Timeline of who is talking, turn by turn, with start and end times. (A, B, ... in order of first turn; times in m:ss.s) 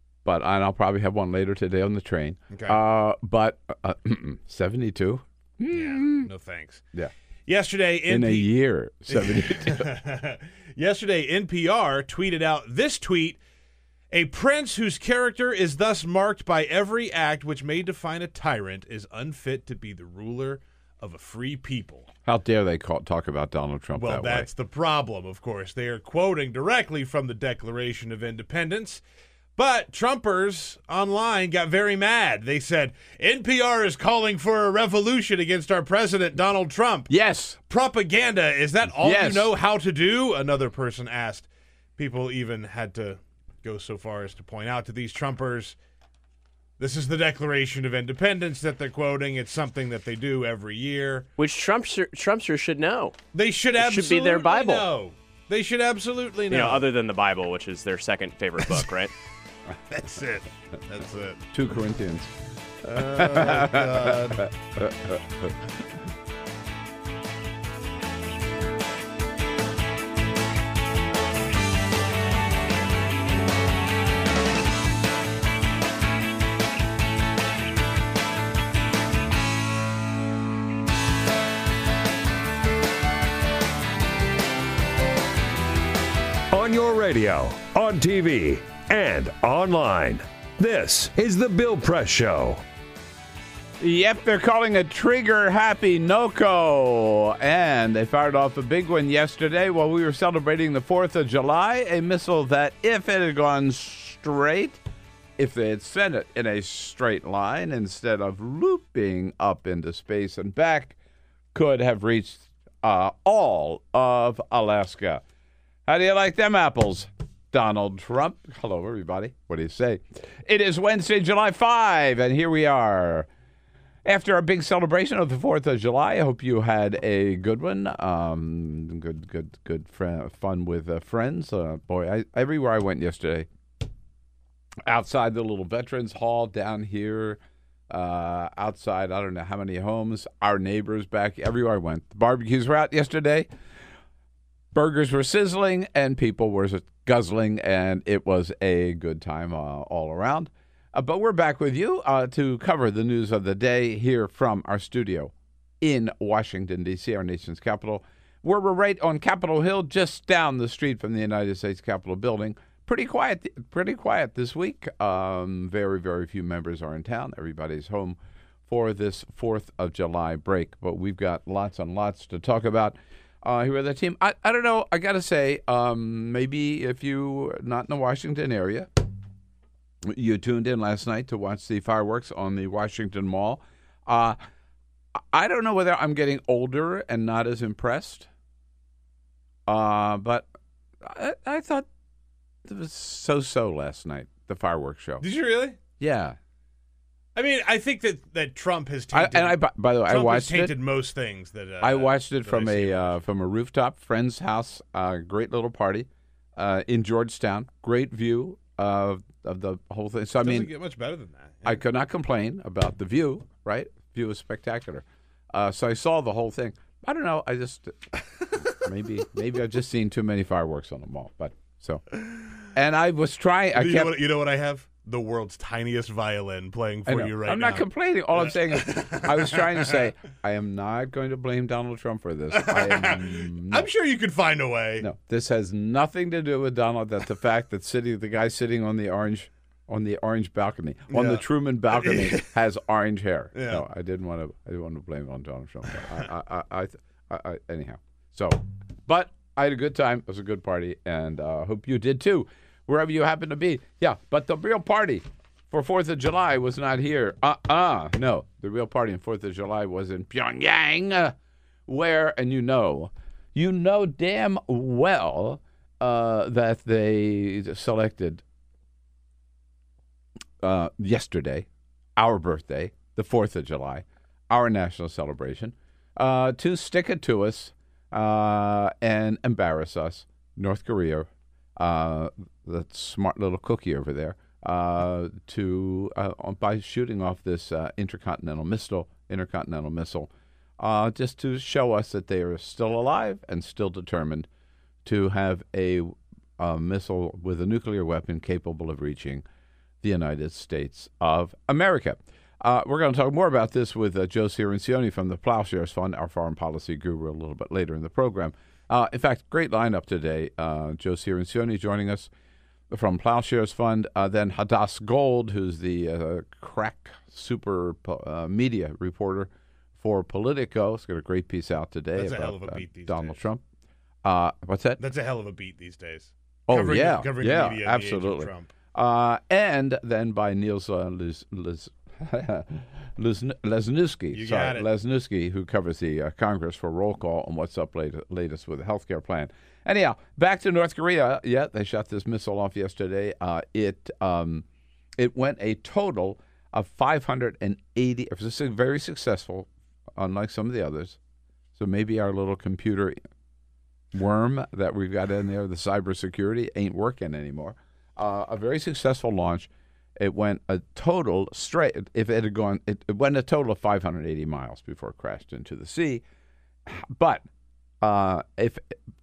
0:00.2-0:06.3 A
0:02.5-0:02.8 B
0:05.7-0:06.8 B
0:07.5-0:08.5 B
0:08.1-0:09.9 A
0:09.1-0:13.4 B
0:14.1-0:22.1 B
0:22.2-0:24.5 A
0:24.0-0:29.0 B
0:29.6-0:37.1 B
0:37.1-0:37.6 A
0:37.7-0:45.8 B
0:38.9-0:39.5 A
0:46.8-0:51.3 B
0:51.4-0:53.2 C
0:53.3-0:56.9 B
0:53.8-0:54.9 C
0:56.5-0:59.1 C
0:59.9-1:01.4 B
1:01.5-1:02.3 A
1:02.8-1:04.5 B
1:02.9-1:05.6 A
1:26.5-1:32.6 D
1:33.8-1:44.8 A
1:45.4-1:51.0 A
1:51.5-1:55.2 A
1:55.9-2:03.3 A
2:04.0-2:13.5 A
2:14.9-2:23.5 A
2:24.7-2:58.9 A
3:00.1-3:04.4 A
3:05.3-3:08.3 A
3:09.7-3:10.5 A
3:11.0-3:11.9 A
3:12.6-3:15.2 A
3:15.2-3:15.8 B
3:16.0-3:16.4 A
3:17.4-3:23.2 B
3:19.1-3:20.8 A
3:21.8-3:30.7 A
3:30.4-3:31.8 B
3:31.6-3:38.1 A
3:38.6-3:42.0 A
3:42.7-3:44.2 A
3:43.8-3:50.0 B
3:47.1-3:53.9 A
3:52.5-3:55.1 B
3:55.0-4:21.4 A
4:01.1-4:02.5 B
4:03.5-4:03.8 B
4:21.9-4:28.4 A
4:30.6-4:54.5 A
4:55.0-4:59.4 A
5:00.0-5:12.3 A
5:12.9-5:23.6 A
5:22.2-5:23.4 B
5:24.2-5:25.0 A
5:25.0-5:28.7 B
5:26.7-5:44.6 A
5:34.3-5:34.9 B
5:45.2-5:51.2 A
5:51.8-5:53.2 A
5:54.1-6:06.2 A
6:06.9-6:07.4 A
6:08.0-6:08.9 A